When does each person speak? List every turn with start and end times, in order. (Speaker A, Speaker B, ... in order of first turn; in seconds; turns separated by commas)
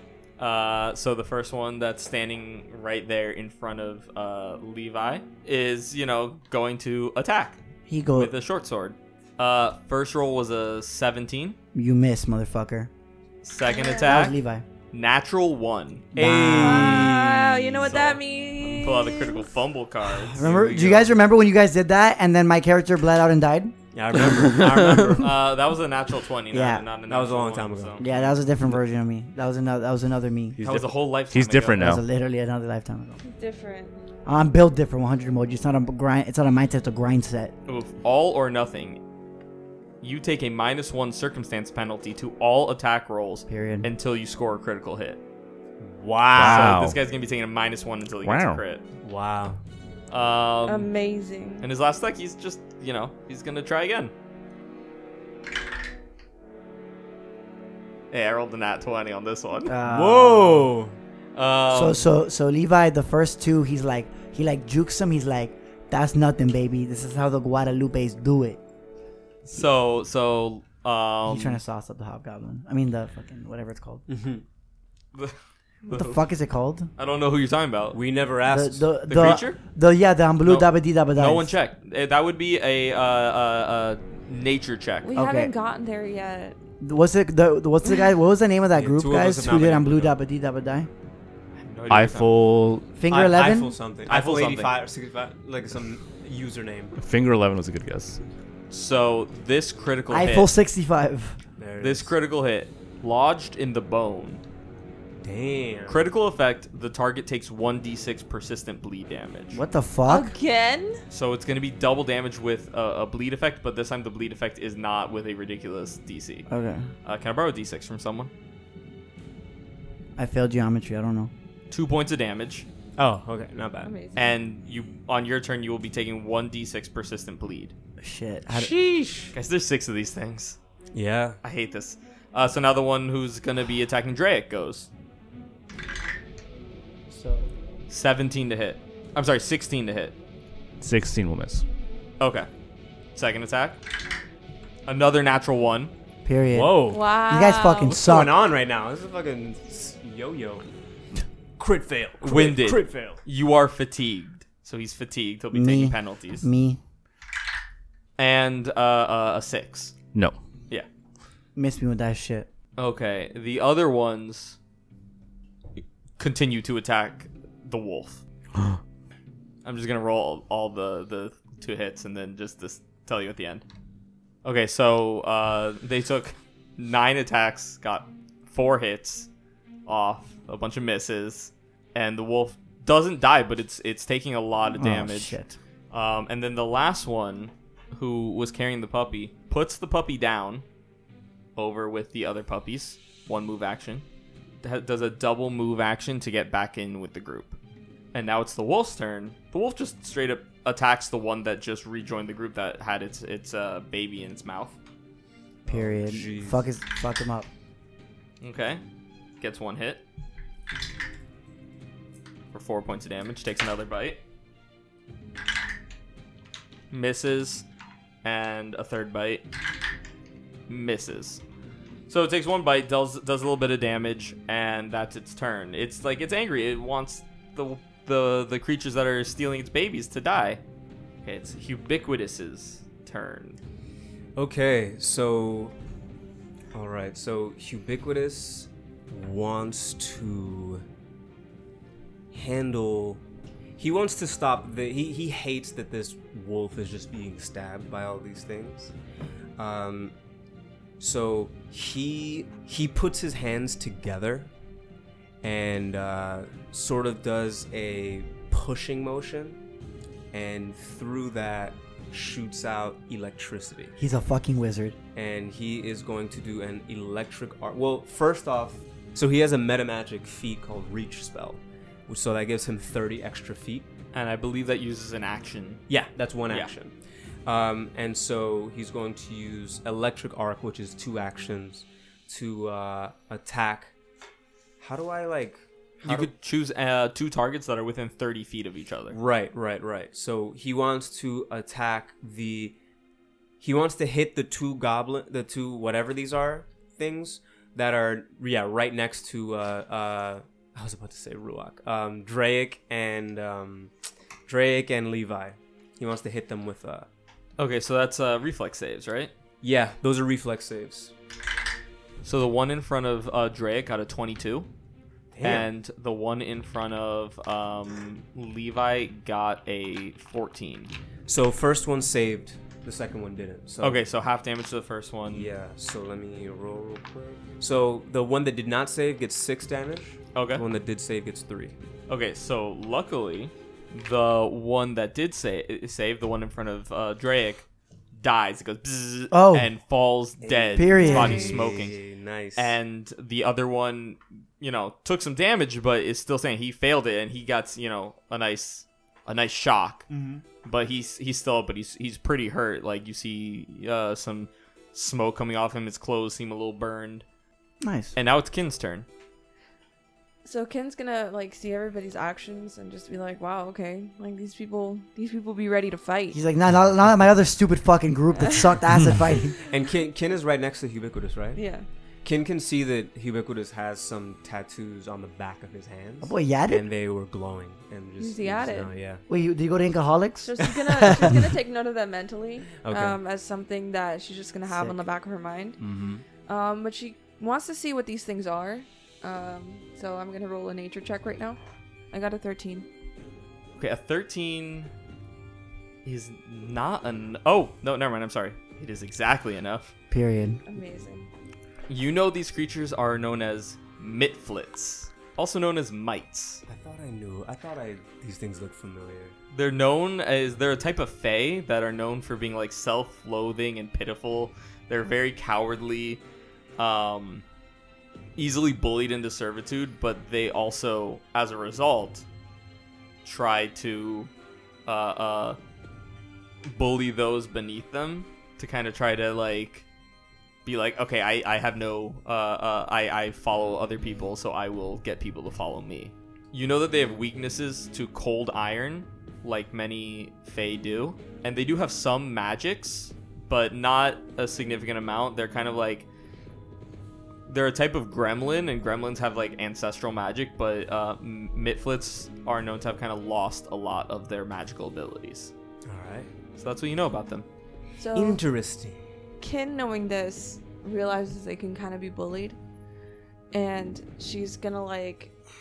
Speaker A: 0.4-7.6, Speaker B: 7.9-8.3, Speaker A: 8.2-11.6, Speaker B: 11.7-12.9, Speaker A: 13.4-14.4, Speaker C: 13.7-14.1, Speaker B: 14.0-14.7, Speaker A: 14.9-16.1, Speaker B: 16.1-17.2, Speaker D: 16.2-18.1, Speaker C: 16.6-19.5, Speaker A: 17.9-20.9, Speaker B: 20.1-23.8, Speaker D: 20.4-21.1, Speaker D: 23.9-25.4, Speaker A: 25.2-28.1, Speaker B: 26.5-26.9, Speaker D: 27.1-28.4, Speaker B: 28.0-30.6, Speaker E: 30.6-32.0, Speaker A: 30.6-31.9, Speaker B: 31.8-33.2, Speaker C: 33.2-34.0, Speaker B: 34.2-37.5, Speaker A: 37.7-39.0, Speaker A: 40.0-45.2, Speaker B: 43.5-43.9, Speaker D: 45.8-46.8, Speaker E: 46.3-47.0, Speaker A: 46.3-48.8, Speaker E: 48.2-48.6, Speaker D: 49.0-49.6, Speaker A: 50.1-50.9, Speaker C: 50.7-51.7, Speaker A: 51.6-54.1, Speaker A: 58.1-59.8, Speaker B: 59.7-60.7, Speaker D: 59.8-61.0, Speaker A: 61.4-62.1, Speaker B: 61.7-68.6, Speaker A: 69.5-71.6, Speaker B: 71.3-74.0, Speaker D: 74.1-74.4, Speaker A: 75.1-76.2, Speaker B: 75.9-76.9, Speaker A: 77.0-78.0, Speaker D: 77.9-78.9, Speaker B: 78.5-81.6, Speaker A: 79.1-79.6, Speaker A: 80.5-85.1, Speaker C: 85.0-86.6, Speaker B: 85.2-85.5, Speaker B: 86.8-90.9, Speaker D: 88.7-90.2, Speaker A: 91.6-92.3, Speaker E: 91.9-93.0, Speaker B: 93.0-93.8, Speaker D: 93.1-97.0, Speaker A: 94.1-94.8, Speaker E: 97.0-98.2, Speaker A: 98.7-100.5, Speaker B: 100.1-101.4, Speaker D: 101.6-102.1, Speaker A: 101.8-104.4, Speaker D: 105.2-106.1, Speaker A: 105.9-109.6, Speaker B: 109.5-110.3, Speaker C: 110.1-111.0, Speaker A: 111.1-116.5, Speaker B: 116.5-116.9, Speaker A: 117.0-118.3, Speaker B: 120.2-121.3, Speaker A: 121.7-122.7, Speaker D: 123.0-123.9, Speaker C: 123.8-124.4, Speaker A: 124.2-127.7, Speaker B: 128.0-128.7, Speaker D: 128.5-129.3, Speaker A: 129.3-130.6, Speaker D: 130.9-131.4, Speaker A: 131.4-134.9, Speaker B: 137.1-137.5, Speaker A: 137.9-140.2, Speaker E: 140.8-141.6, Speaker A: 142.2-142.5, Speaker A: 143.2-143.8, Speaker A: 144.9-145.9, Speaker B: 146.2-148.3, Speaker D: 146.5-147.0, Speaker C: 146.9-147.9, Speaker D: 147.9-150.6, Speaker D: 151.6-153.2, Speaker A: 152.2-156.5, Speaker B: 155.5-156.8, Speaker A: 158.2-159.9, Speaker B: 161.6-162.5, Speaker A: 162.8-164.6, Speaker A: 166.2-168.2, Speaker A: 169.6-173.6, Speaker A: 174.4-179.3, Speaker A: 179.9-185.4, Speaker B: 184.7-185.6, Speaker A: 185.9-190.7, Speaker A: 191.6-194.0, Speaker A: 194.6-197.6, Speaker A: 198.1-204.8, Speaker D: 205.7-206.7, Speaker B: 205.7-207.5, Speaker A: 208.4-208.8, Speaker A: 209.4-210.0, Speaker A: 212.5-214.2, Speaker A: 216.9-217.7, Speaker A: 218.2-219.4, Speaker A: 220.7-221.4, Speaker A: 222.1-230.6, Speaker A: 231.2-233.6, Speaker D: 234.4-235.7, Speaker D: 236.7-240.8, Speaker D: 242.3-243.2, Speaker D: 243.8-248.9, Speaker D: 249.6-250.1, Speaker D: 251.0-254.5, Speaker D: 255.4-259.6, Speaker D: 260.3-263.9, Speaker B: 264.0-265.0, Speaker D: 265.1-273.9, Speaker A: 274.1-275.8, Speaker D: 275.9-276.9, Speaker D: 277.5-283.9, Speaker D: 284.8-286.3, Speaker A: 286.0-289.2, Speaker D: 289.1-292.8, Speaker D: 293.6-303.9, Speaker D: 304.5-307.1, Speaker A: 307.6-309.3, Speaker D: 309.6-311.1, Speaker A: 312.2-314.7, Speaker D: 315.3-315.7, Speaker A: 315.4-320.9, Speaker D: 321.3-324.0, Speaker A: 323.8-325.5, Speaker D: 325.3-331.8, Speaker A: 330.3-330.6, Speaker A: 332.1-342.0, Speaker B: 339.3-339.7, Speaker D: 340.4-342.8, Speaker B: 340.8-341.6, Speaker C: 341.0-341.6, Speaker A: 342.6-350.1, Speaker D: 350.1-350.4, Speaker A: 350.6-357.2, Speaker B: 357.8-358.2, Speaker A: 358.1-359.1, Speaker C: 360.4-366.4, Speaker B: 366.3-369.6, Speaker C: 368.3-368.7, Speaker D: 369.7-371.6, Speaker C: 371.6-371.9, Speaker D: 372.2-379.2, Speaker B: 376.2-376.9, Speaker C: 378.2-378.9, Speaker B: 379.3-381.5, Speaker C: 380.4-385.8, Speaker D: 381.0-381.4, Speaker D: 382.8-383.2, Speaker B: 384.7-385.0, Speaker D: 385.8-386.2, Speaker C: 386.5-391.6, Speaker C: 392.1-392.9, Speaker A: 393.8-394.9, Speaker A: 396.1-399.9, Speaker B: 400.1-400.6, Speaker C: 400.7-401.3, Speaker A: 401.9-406.6, Speaker D: 406.7-409.4, Speaker A: 409.5-416.2, Speaker A: 416.8-417.4, Speaker A: 418.4-422.2, Speaker A: 423.2-424.3, Speaker A: 424.9-425.6, Speaker A: 426.7-429.9, Speaker A: 430.7-446.1, Speaker A: 447.5-455.5, Speaker D: 455.9-456.3, Speaker A: 456.6-457.5, Speaker C: 458.0-458.4, Speaker D: 458.1-459.0, Speaker C: 459.4-462.6, Speaker C: 463.5-465.3